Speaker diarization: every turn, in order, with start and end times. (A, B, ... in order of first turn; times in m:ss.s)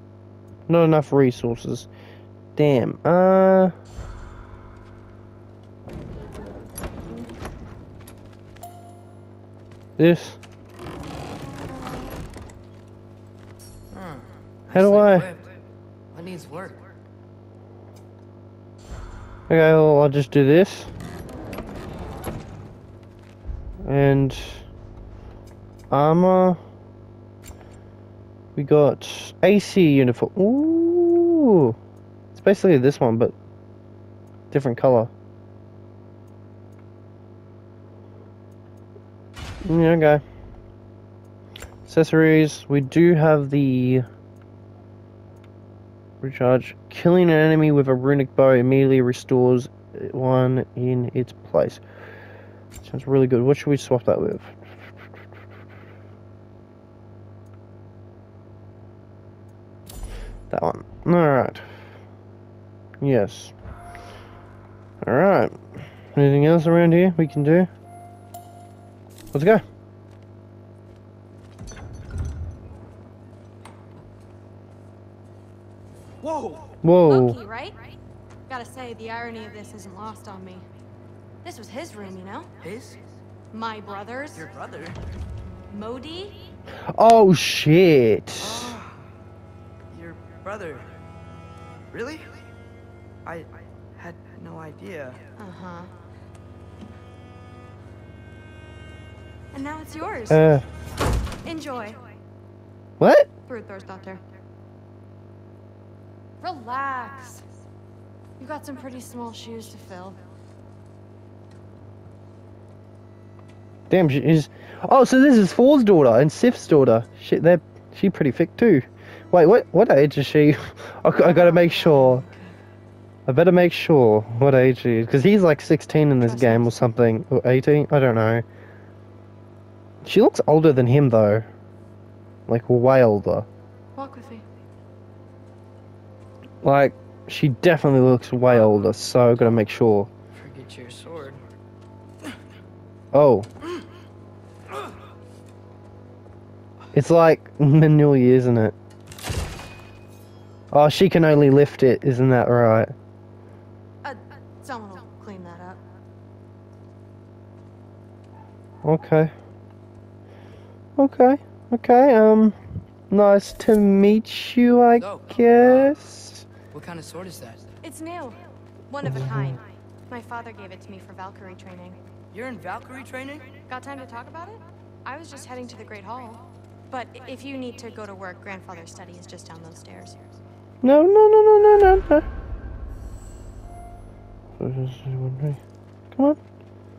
0:00.7-0:01.9 A
0:02.6-0:03.7 A
0:10.0-0:10.4 A
0:13.9-0:15.5 B
0:14.7-0:15.3 A
0:16.1-0:16.8 B
0:19.5-0:20.9 A
0:23.8-0:24.6 A
0:25.9-0:26.6 A
0:28.6-0:31.8 A
0:32.3-0:33.3 A
0:34.5-0:35.1 A
0:39.6-0:40.2 A
0:41.9-0:44.0 A
0:46.2-0:51.8 A
0:52.8-0:54.9 A
1:00.5-1:01.7 A
1:03.0-1:03.5 A
1:05.0-1:05.6 A
1:06.1-1:07.7 A
1:09.3-1:09.6 A
1:16.2-1:16.6 B
1:16.8-1:17.4 A
1:17.0-1:20.6 C
1:21.4-1:22.5 C
1:22.6-1:23.0 B
1:23.5-1:24.5 C
1:24.3-1:25.0 B
1:25.7-1:26.5 C
1:26.8-1:28.8 A
1:28.4-1:29.0 B
1:29.9-1:30.9 B
1:31.9-1:32.3 B
1:33.2-1:35.2 B
1:35.4-1:35.9 C
1:39.5-1:40.4 C
1:40.3-1:40.6 A
1:41.4-1:42.1 C
1:43.0-1:43.3 A
1:43.5-1:44.2 C
1:46.4-1:47.4 C
1:48.4-1:50.2 C
1:53.9-2:02.2 A
2:01.1-2:02.5 C
2:03.2-2:08.4 A
2:06.2-2:06.8 C
2:10.0-2:11.5 A
2:12.5-2:13.4 A
2:13.9-2:14.4 C
2:16.6-2:20.1 A
2:18.5-2:19.6 B
2:20.3-2:21.4 B
2:23.1-2:23.5 A
2:26.9-2:28.7 A
2:30.7-2:32.9 A
2:34.0-2:35.8 C
2:38.8-2:39.3 A
2:41.0-2:42.6 A
2:43.1-2:46.5 A
2:45.0-2:45.9 B
2:46.7-2:47.7 B
2:47.8-2:52.0 C
2:49.0-2:49.6 A
2:52.3-2:53.5 B
2:53.7-3:00.4 C
3:00.8-3:02.2 A
3:04.6-3:05.6 A
3:06.1-3:06.4 A